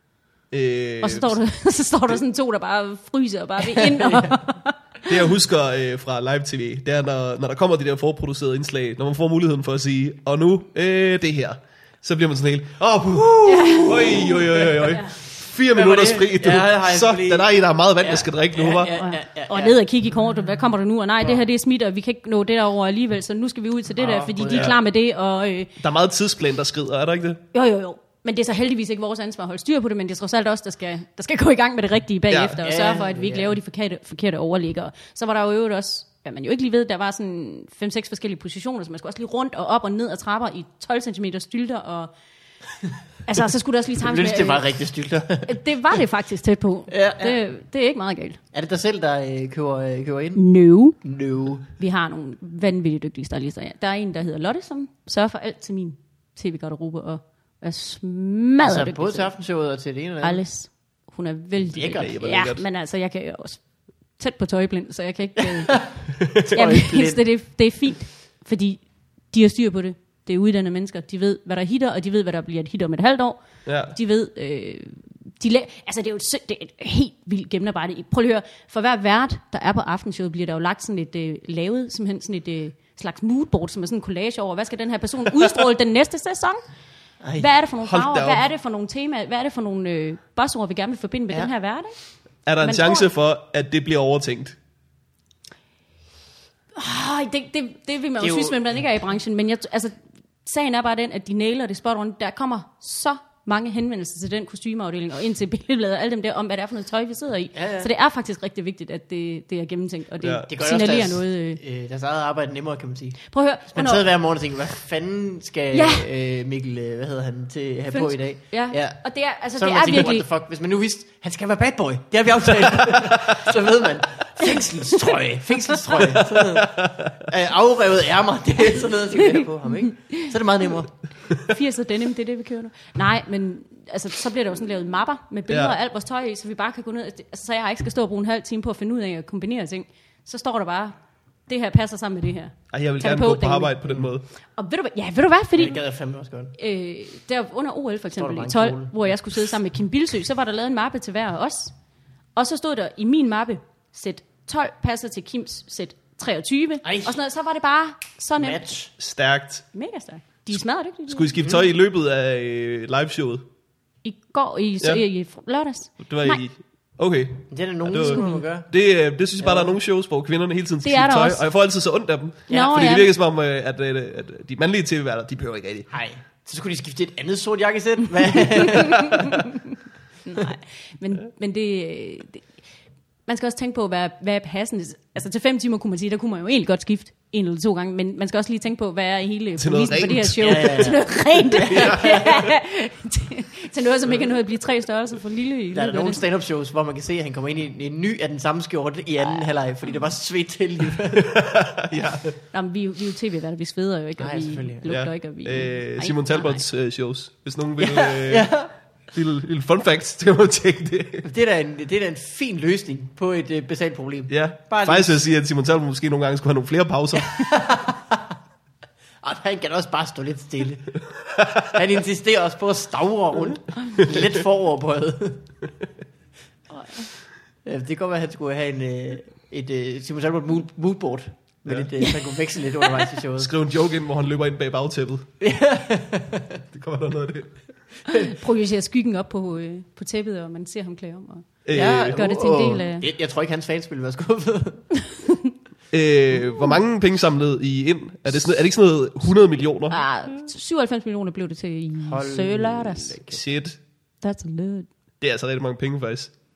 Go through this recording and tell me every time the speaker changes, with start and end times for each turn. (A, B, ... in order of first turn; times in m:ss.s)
0:00.5-0:01.4 A
0:01.0-0:05.1 B
0:03.8-0:04.4 C
0:05.0-0:18.9 A
0:13.3-0:14.8 C
0:13.4-0:15.2 B
0:15.7-0:19.8 C
0:18.9-0:25.7 B
0:24.0-0:24.8 C
0:24.4-0:24.7 A
0:25.8-0:27.4 A
0:27.5-0:42.1 B
0:32.3-0:32.6 A
0:32.6-0:33.6 C
0:43.2-0:44.7 B
0:44.0-0:45.6 C
0:45.4-0:48.4 B
0:46.9-0:47.4 C
0:48.5-0:50.4 C
0:50.3-0:51.0 B
0:51.0-0:51.7 C
0:51.8-0:59.3 B
0:58.6-1:00.4 C
1:00.2-1:26.6 B
1:01.7-1:02.1 C
1:01.7-1:02.6 A
1:05.4-1:07.2 C
1:13.6-1:13.9 A
1:27.2-1:27.5 C
1:27.3-1:32.0 B
1:27.8-1:28.4 A
1:32.4-1:34.6 A
1:32.6-1:33.1 B
1:36.7-1:51.6 B
1:38.2-1:38.6 C
1:47.5-1:47.9 C
1:50.2-1:50.5 A
1:50.5-1:59.0 C
1:53.3-1:54.1 B
1:55.7-1:56.1 B
1:57.9-2:00.3 B
1:59.5-2:11.0 C
2:06.3-2:07.1 A
2:09.2-2:10.3 B
2:11.4-2:20.9 B
2:15.5-2:15.8 A
2:21.5-2:23.8 B
2:22.7-2:24.2 A
2:24.6-2:25.8 B
2:25.6-2:26.5 C
2:26.6-2:31.7 B
2:28.2-2:29.2 C
2:32.4-2:38.7 B
2:36.8-2:37.2 C
2:38.4-2:38.9 C
2:39.0-2:39.7 A
2:39.7-2:41.3 B
2:41.1-2:43.4 A
2:41.4-2:41.6 C
2:44.0-2:46.4 B
2:46.0-2:55.9 A
2:47.5-2:48.7 C
2:48.1-2:48.4 B
2:49.4-2:49.8 C
2:50.8-2:51.4 B
2:52.5-2:52.8 C
2:52.5-2:53.1 B
2:55.9-2:59.4 C
3:00.2-3:02.5 B
3:03.2-3:16.2 B
3:09.6-3:10.9 A
3:10.4-3:12.3 C
3:11.6-3:12.4 A
3:15.7-3:21.3 C
3:19.2-3:19.4 B
3:21.1-3:22.3 A
3:22.4-3:26.6 B
3:24.2-3:24.9 C
3:24.9-3:31.2 A
3:27.8-3:28.7 C
3:31.2-3:35.2 C
3:34.3-3:37.5 A
3:37.2-3:38.3 C
3:39.2-3:41.0 C
3:41.6-3:45.4 C
3:46.7-3:47.1 B
3:47.6-3:53.5 C
3:52.0-3:52.3 B
3:52.8-3:53.1 B
3:53.4-3:55.3 A
3:55.4-3:56.6 C
3:56.7-3:57.7 A
3:58.1-4:03.1 B
4:01.6-4:02.2 A
4:01.7-4:04.9 C
4:05.1-4:05.5 B
4:05.9-4:10.0 A
4:09.9-4:13.2 B
4:12.0-4:13.4 C
4:13.3-4:13.8 A
4:14.2-4:14.9 B
4:15.2-4:16.3 A